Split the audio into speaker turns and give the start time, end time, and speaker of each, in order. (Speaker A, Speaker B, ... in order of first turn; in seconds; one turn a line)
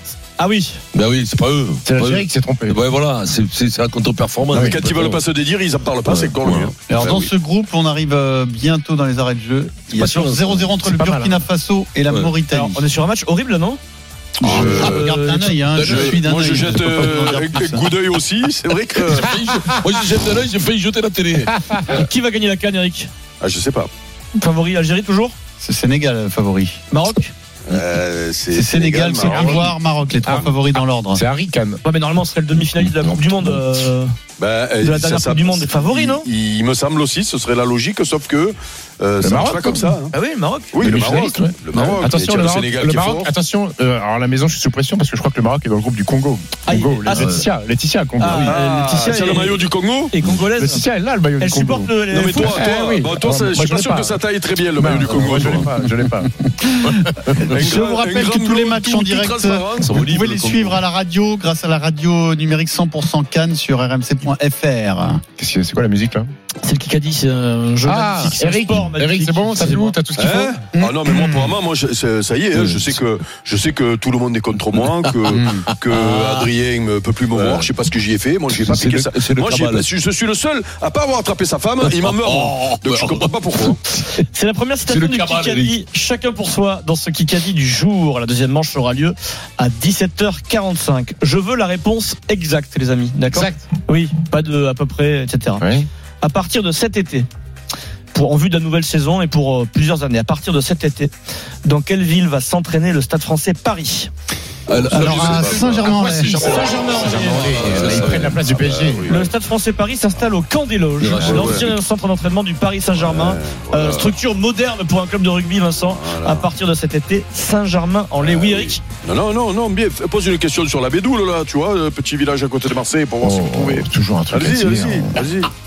Speaker A: 0.4-0.8
Speaker B: 0.9-5.2
Speaker C: 1.8-2.8
Speaker C: 4.5-4.8
Speaker D: 4.7-6.7
Speaker B: 6.0-7.3
Speaker E: 6.9-12.8
Speaker B: 9.9-10.8
Speaker C: 10.8-11.4
Speaker B: 12.1-12.3
Speaker A: 12.5-13.8
Speaker E: 14.4-17.9
Speaker A: 14.6-15.7
Speaker D: 14.6-15.0
Speaker B: 15.7-16.2
Speaker D: 15.9-19.3
Speaker B: 19.1-21.6
Speaker C: 21.5-22.1
Speaker A: 21.9-23.1
Speaker D: 23.4-23.9
Speaker A: 24.4-25.4
Speaker E: 25.6-26.8
Speaker A: 26.9-27.3
Speaker D: 27.6-29.8
Speaker E: 28.5-31.2
Speaker C: 29.2-29.6
Speaker C: 30.2-31.8
Speaker A: 31.8-34.1
Speaker C: 32.6-33.7
Speaker D: 34.4-40.1
Speaker A: 34.8-36.3
Speaker C: 39.2-40.0
Speaker A: 40.1-40.8
Speaker D: 40.7-43.3
Speaker C: 40.8-48.6
Speaker A: 46.7-47.5
Speaker B: 47.1-47.5
Speaker A: 48.2-50.9
Speaker D: 48.4-50.1
Speaker C: 50.3-54.2
Speaker A: 51.4-52.6
Speaker D: 52.1-55.7
Speaker C: 54.8-56.3
Speaker E: 56.5-65.2
Speaker D: 57.5-59.9
Speaker B: 59.8-60.8
Speaker C: 65.4-66.3
Speaker A: 66.6-70.0
Speaker C: 67.8-70.6
Speaker D: 70.2-83.8
Speaker E: 70.7-71.6
Speaker B: 72.5-73.0
Speaker B: 74.8-76.5
Speaker E: 75.4-75.7
Speaker B: 77.3-77.7
Speaker B: 78.5-79.9
Speaker B: 81.8-83.7
Speaker A: 84.2-95.7
Speaker B: 84.9-85.7
Speaker C: 93.3-93.6
Speaker C: 95.6-95.9
Speaker A: 96.2-97.3
Speaker A: 98.1-101.1
Speaker A: 101.6-104.1
Speaker B: 104.7-108.4
Speaker E: 104.8-106.7
Speaker A: 106.3-108.0
Speaker C: 106.3-109.1
Speaker D: 108.4-109.3
Speaker A: 109.1-118.8
Speaker B: 111.0-111.7
Speaker D: 111.3-111.6
Speaker D: 112.9-114.2
Speaker D: 115.8-116.5
Speaker D: 118.2-125.5
Speaker C: 123.2-125.2